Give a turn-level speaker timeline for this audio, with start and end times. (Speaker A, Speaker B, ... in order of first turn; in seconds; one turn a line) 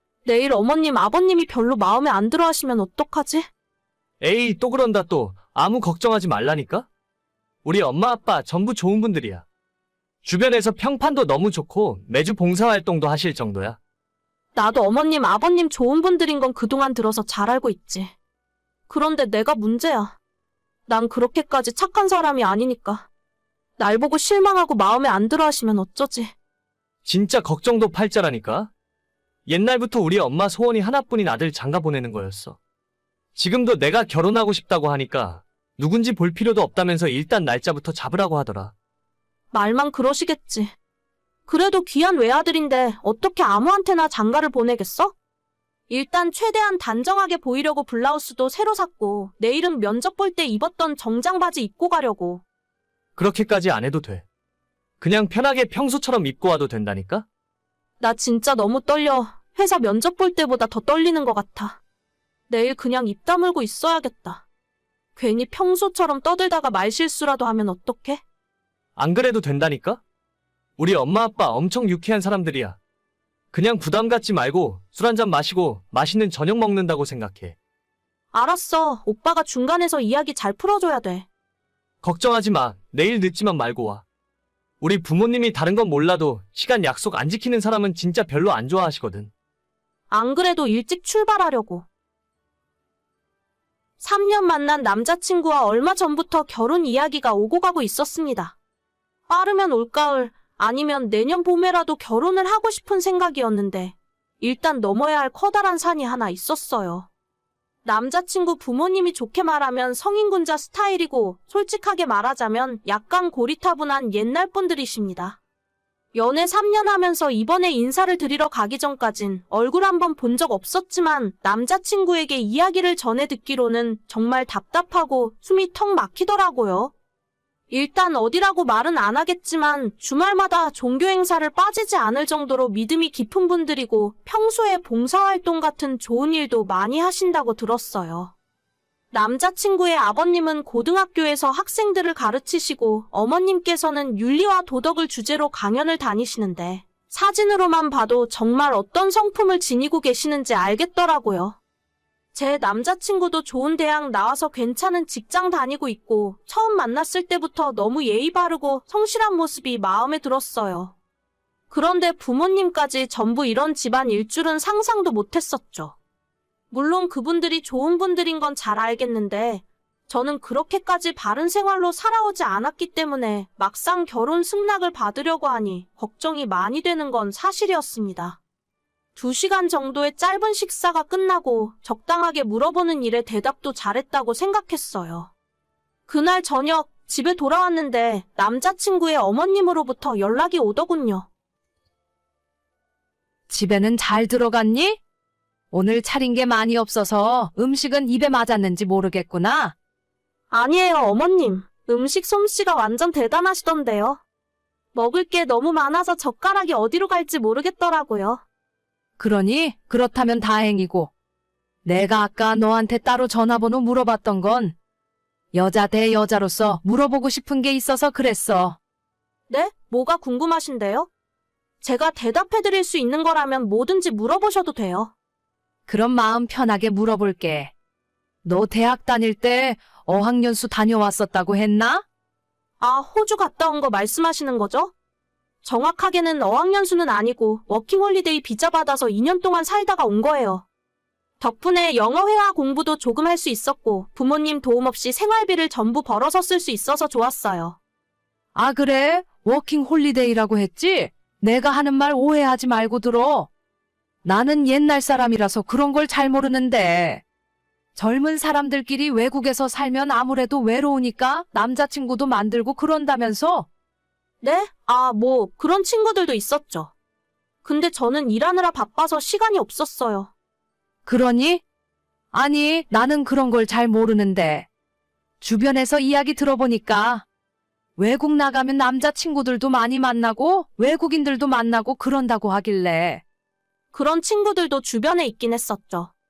Speaker A: 0.2-3.5
Speaker B: 4.2-6.9
Speaker B: 7.6-9.4
Speaker B: 10.2-13.8
Speaker A: 14.5-18.1
Speaker A: 18.9-20.1
Speaker A: 20.9-23.1
Speaker A: 23.8-26.3
Speaker B: 27.0-28.7
Speaker B: 29.5-32.6
Speaker B: 33.3-38.7
Speaker A: 39.5-40.7
Speaker A: 41.5-45.1
Speaker A: 45.9-52.4
Speaker B: 53.2-54.2
Speaker B: 55.0-57.2
Speaker A: 58.0-61.8
Speaker A: 62.5-64.4
Speaker A: 65.2-68.2
Speaker B: 69.0-70.0
Speaker B: 70.8-72.8
Speaker B: 73.5-77.6
Speaker A: 78.3-81.3
Speaker B: 82.0-84.0
Speaker B: 84.8-89.3
Speaker A: 90.1-91.8
Speaker A: 94.0-98.5
Speaker A: 99.3-107.1
Speaker A: 107.8-115.4
Speaker A: 116.1-126.9
Speaker A: 127.7-138.3
Speaker A: 139.1-151.6
Speaker A: 152.3-160.9
Speaker A: 161.7-165.9
Speaker A: 166.7-178.4
Speaker A: 179.2-185.3
Speaker A: 186.1-191.3
Speaker C: 193.5-195.0
Speaker C: 195.7-199.7
Speaker A: 200.5-204.2
Speaker A: 204.9-208.4
Speaker C: 209.2-211.1
Speaker C: 211.8-214.7
Speaker C: 215.5-218.8
Speaker A: 219.5-221.1
Speaker A: 221.8-225.1
Speaker C: 225.9-227.7
Speaker C: 228.4-232.0
Speaker A: 232.8-234.9
Speaker A: 235.6-240.6
Speaker A: 241.4-247.8
Speaker C: 248.5-253.5
Speaker C: 254.2-257.2
Speaker C: 257.9-263.7
Speaker A: 264.4-266.9
Speaker A: 267.6-270.3
Speaker C: 271.1-271.6
Speaker C: 272.3-274.6
Speaker C: 275.4-277.2
Speaker C: 278.0-283.2
Speaker A: 283.9-286.1